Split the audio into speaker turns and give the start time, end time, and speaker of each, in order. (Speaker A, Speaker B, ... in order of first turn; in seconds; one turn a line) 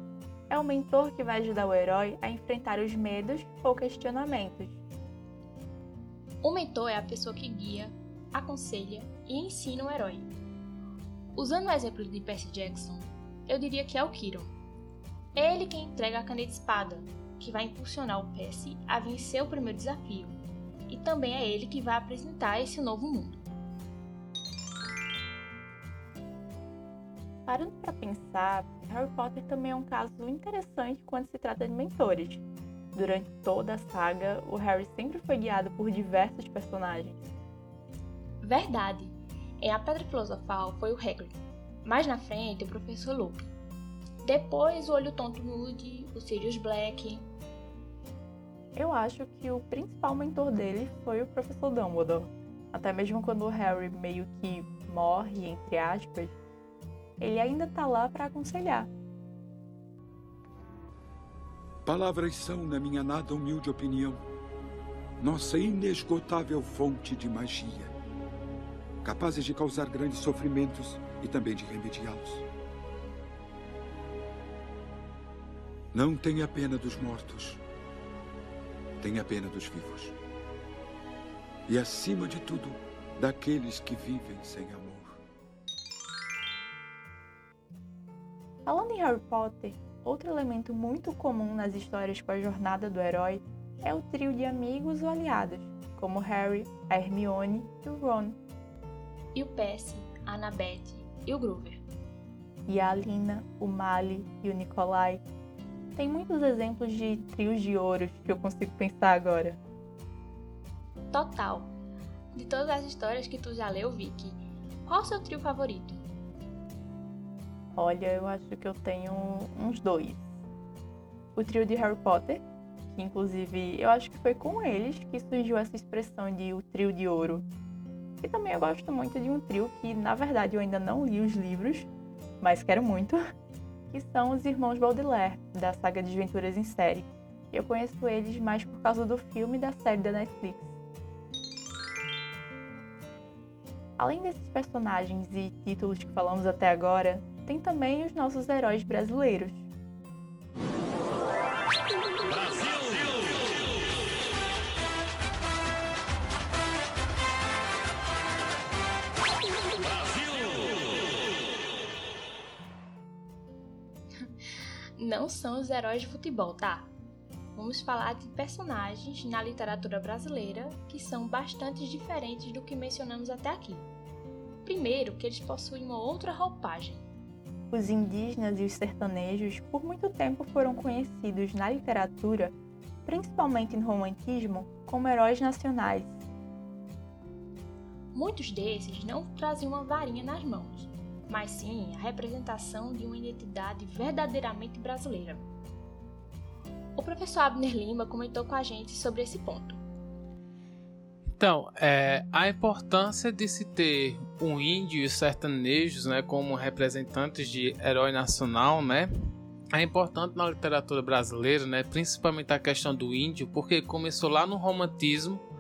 Speaker A: 0.5-4.8
Speaker B: 6.4-10.3
Speaker B: 11.3-14.5
Speaker B: 15.3-23.4
Speaker A: 27.4-37.3
Speaker B: 38.4-43.5
Speaker B: 44.2-47.2
Speaker A: 48.7-56.4
Speaker A: 57.2-58.9
Speaker C: 61.8-64.2
Speaker C: 65.2-67.9
Speaker C: 69.0-72.4
Speaker C: 75.9-77.6
Speaker C: 79.0-80.2
Speaker C: 81.7-85.2
Speaker A: 88.7-98.4
Speaker B: 99.3-101.8
Speaker A: 102.7-105.2
Speaker A: 106.0-109.6
Speaker B: 111.1-111.7
Speaker B: 112.3-116.0
Speaker A: 117.8-120.3
Speaker A: 121.3-127.5
Speaker A: 128.2-131.9
Speaker A: 132.4-133.2
Speaker A: 133.9-140.7
Speaker A: 144.0-149.7
Speaker B: 165.0-166.9
Speaker B: 167.5-173.9
Speaker B: 174.6-177.0
Speaker A: 177.7-186.2
Speaker B: 188.1-195.4
Speaker B: 196.9-199.8
Speaker D: 201.4-209.1
Speaker D: 209.7-215.4